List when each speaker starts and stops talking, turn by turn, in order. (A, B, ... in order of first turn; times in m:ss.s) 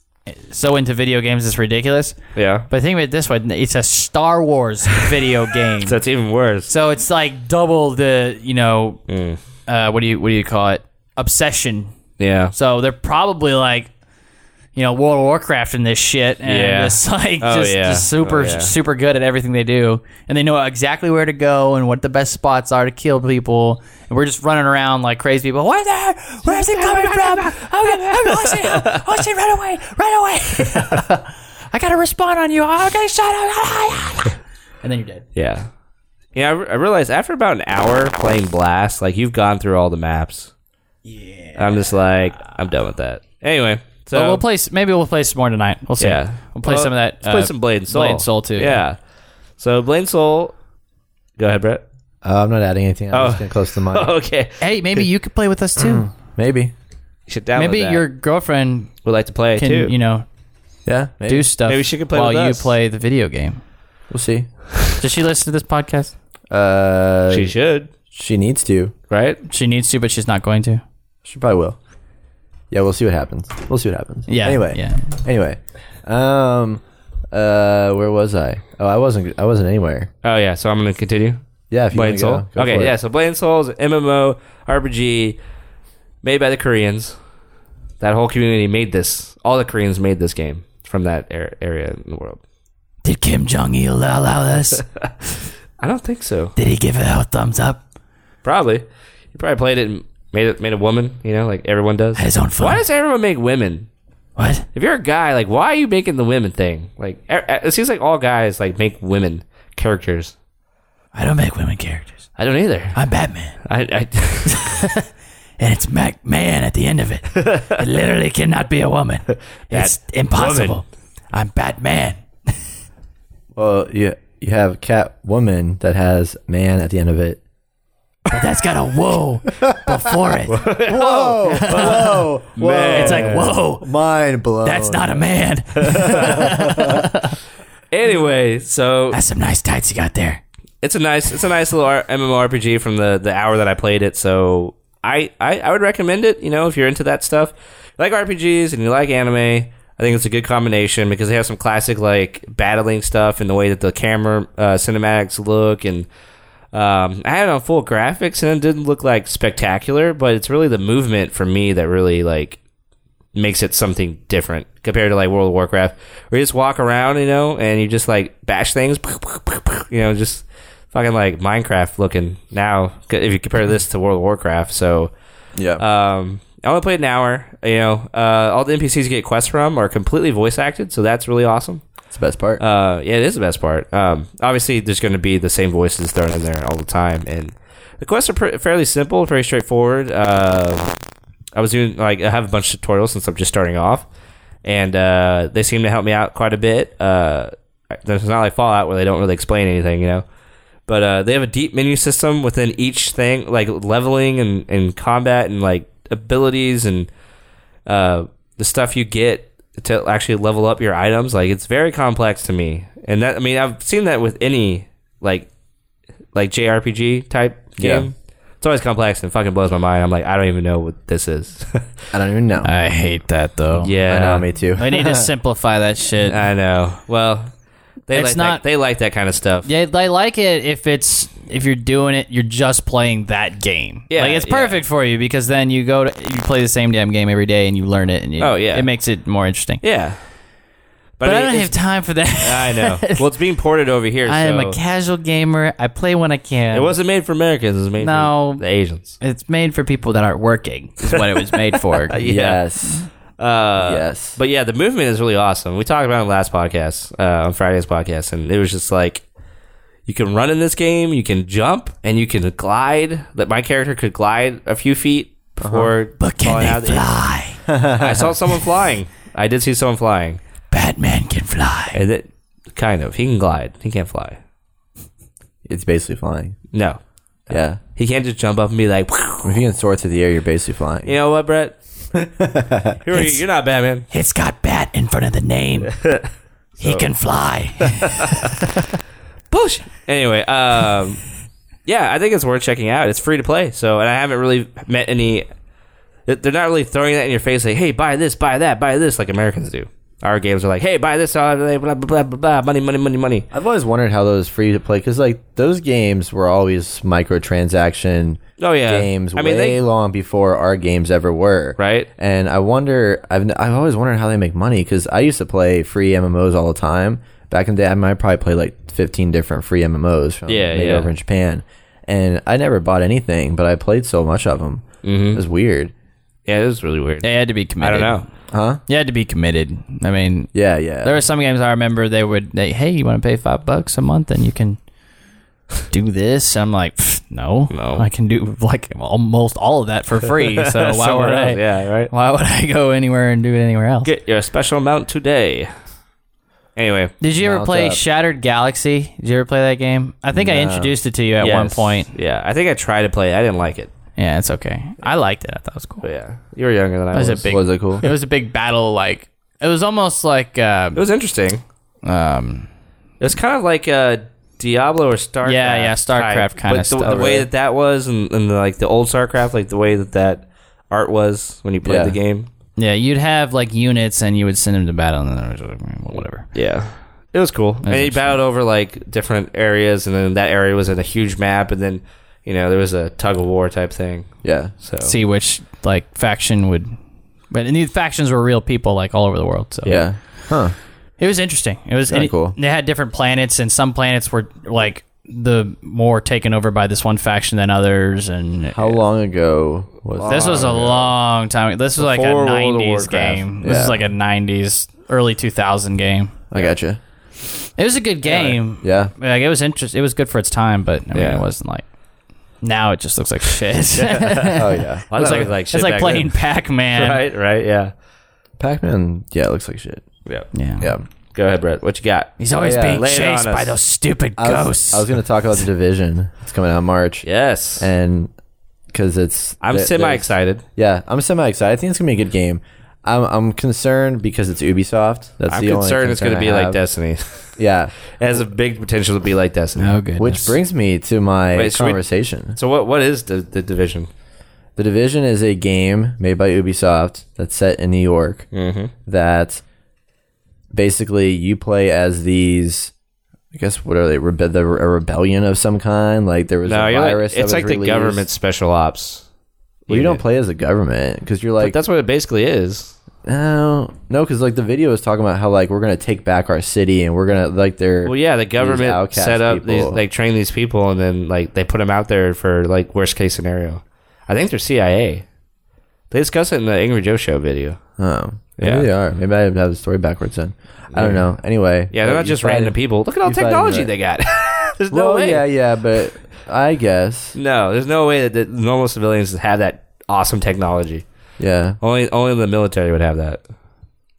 0:00.3-0:02.2 A
0:02.4-0:02.7 B
0:02.7-0:06.0 A
0:05.8-0:06.7 B
0:06.7-0:09.0 A
0:09.1-0:09.4 B
0:09.7-0:11.9 A
0:12.2-0:12.5 B
0:12.5-0:13.9 A
0:14.8-0:35.2 A
0:16.4-0:18.7 B
0:26.5-0:29.2 B
0:35.4-0:35.7 B
0:36.4-0:40.5 B
0:41.0-0:41.9 A
0:41.6-0:44.4 B
0:44.1-0:48.8 A
0:46.0-0:49.0 B
0:49.6-0:50.5 B
0:51.4-0:51.8 B
0:52.2-0:54.1 C
0:53.1-0:55.0 B
0:54.6-0:56.1 A
0:55.8-0:56.7 C
0:57.3-0:58.1 B
0:57.6-0:58.9 A
0:59.0-0:59.9 B
0:59.6-1:00.3 A
1:00.9-1:01.5 C
1:01.3-1:03.6 A
1:01.7-1:02.7 B
1:04.1-1:04.5 C
1:05.0-1:06.1 A
1:06.5-1:07.5 C
1:07.3-1:07.9 B
1:08.1-1:08.9 C
1:09.1-1:09.4 B
1:09.5-1:10.8 A
1:11.2-1:11.8 C
1:12.7-1:20.1 C
1:14.3-1:15.0 A
1:20.2-1:21.4 B
1:21.7-1:22.9 C
1:21.9-1:25.4 B
1:26.2-1:27.2 B
1:28.0-1:32.4 B
1:33.0-1:34.8 A
1:34.8-1:35.0 B
1:35.8-1:36.5 B
1:36.6-1:37.8 A
1:38.4-1:43.9 B
1:42.2-1:42.8 A
1:44.4-1:44.7 A
1:44.8-1:50.4 B
1:51.1-1:52.2 A
1:52.4-1:53.0 B
1:52.9-1:53.6 A
1:53.6-1:54.8 B
1:54.5-1:55.0 A
1:55.6-2:02.2 A
1:57.3-1:57.8 B
1:59.7-2:00.8 B
2:03.6-2:07.4 C
2:08.3-2:10.7 A
2:10.5-2:13.5 B
2:10.8-2:15.3 C
2:11.5-2:12.2 A
2:12.9-2:13.9 A
2:14.6-2:17.4 A
2:15.9-2:17.0 C
2:17.9-2:19.2 B
2:19.1-2:20.4 A
2:20.8-2:36.1 B
2:36.7-2:42.6 B
2:43.4-2:55.1 B
2:55.6-2:55.8 C
2:55.8-3:01.8 B
3:02.1-3:02.6 C
3:02.6-3:10.9 B
3:11.5-3:14.1 B
3:14.6-3:20.2 B
3:20.9-3:27.1 B
3:27.9-3:35.5 B
3:36.3-3:42.0 B
3:37.8-3:38.1 C
3:42.1-3:42.7 C
3:42.6-3:43.9 A
3:43.8-3:44.5 B
3:44.1-3:45.3 C
3:44.8-3:46.4 A
3:46.2-3:47.5 B
3:48.1-3:49.7 B
3:48.1-3:48.6 A
3:49.6-3:59.8 A
3:54.1-3:54.8 B
3:58.4-3:58.9 B
3:59.8-4:00.2 B
4:01.2-4:04.8 B
4:01.2-4:03.2 A
4:04.3-4:06.9 A
4:06.7-4:09.2 B
4:08.0-4:08.6 A
4:09.2-4:12.2 A
4:11.1-4:12.6 B
4:12.2-4:13.1 C
4:13.4-4:19.2 B
4:13.8-4:14.4 C
4:20.1-4:27.1 B
4:25.6-4:25.9 C
4:26.2-4:27.6 A
4:27.7-4:28.4 C
4:28.0-4:30.4 B
4:30.7-4:32.0 A
4:31.9-4:34.4 B
4:35.7-4:36.6 C
4:36.7-4:39.6 B
4:37.5-4:37.8 C
4:39.4-4:41.1 C
4:41.0-4:41.8 B
4:42.2-4:43.0 C
4:43.0-4:44.1 B
4:43.1-4:43.4 A
4:44.1-4:46.0 A
4:45.9-4:47.1 B
4:46.8-4:48.5 A
4:47.8-4:48.5 B
4:49.5-4:51.2 B
4:51.9-4:55.5 B
4:56.3-5:03.5 B
5:03.5-5:25.9 C
5:08.6-5:09.8 B
5:11.8-5:12.1 B
5:20.5-5:21.1 B
5:25.0-5:25.4 B
5:26.5-5:27.3 B
5:27.2-5:28.2 A
5:27.8-5:28.2 B
5:28.5-5:28.8 C
5:28.9-5:34.8 A
5:30.5-5:31.2 C
5:35.9-5:44.1 A
5:37.7-5:38.1 B
5:40.4-5:42.1 B
5:44.0-5:45.7 B
5:46.8-5:47.2 B
5:47.2-5:52.1 A
5:47.4-5:48.0 C
5:50.4-5:51.0 C
5:51.4-5:53.9 B
5:54.2-5:56.0 A
5:56.0-5:57.6 B
5:57.1-6:01.0 A
5:57.5-5:58.1 C
6:01.0-6:01.6 B
6:02.0-6:02.7 A
6:03.2-6:12.5 B
6:05.4-6:07.4 A
6:07.1-6:07.5 C
6:11.8-6:12.2 C
6:12.8-6:16.5 A
6:16.5-6:25.1 B
6:17.8-6:18.3 A
6:24.4-6:24.7 C
6:25.0-6:27.0 A
6:27.5-6:30.0 A
6:29.8-6:30.8 C
6:31.2-6:39.0 A
6:32.1-6:32.6 C
6:38.7-6:40.9 C
6:40.2-6:41.1 B
6:40.3-6:46.4 A
6:42.0-6:43.4 B
6:43.6-6:44.0 C
6:46.5-6:47.0 C
6:47.8-6:51.9 A
6:48.2-6:48.6 B
6:48.8-6:49.1 C
6:51.1-6:51.4 B
6:52.6-6:57.2 A
6:54.5-6:55.0 C
6:55.1-6:56.4 B
6:56.9-6:57.9 B
6:58.6-7:00.1 C
7:00.5-7:00.9 A
7:00.8-7:01.1 C
7:01.3-7:03.8 B
7:02.4-7:05.1 A
7:02.6-7:03.1 C
7:04.4-7:07.3 C
7:07.2-7:07.9 B
7:07.8-7:08.3 C
7:08.9-7:16.8 C
7:09.6-7:10.6 B
7:15.5-7:17.6 B
7:17.6-7:18.0 C
7:18.2-7:20.0 B
7:19.8-7:20.6 A
7:20.2-7:22.6 C
7:21.5-7:22.0 B
7:22.6-7:24.1 B
7:24.8-7:28.5 C
7:28.5-7:28.9 B
7:29.1-7:29.6 C
7:30.7-7:32.9 C
7:33.5-7:38.2 C
7:36.7-7:39.2 B
7:39.9-7:40.2 B
7:39.9-7:41.8 C
7:41.6-7:43.0 B
7:43.2-7:50.0 C
7:48.0-7:55.2 B
7:56.1-7:57.8 B
7:58.0-8:03.9 C
7:58.6-7:58.9 B
8:00.9-8:01.2 B
8:01.9-8:05.4 B
8:04.9-8:07.4 C
8:07.4-8:11.0 B
8:11.4-8:11.8 C
8:11.8-8:13.4 B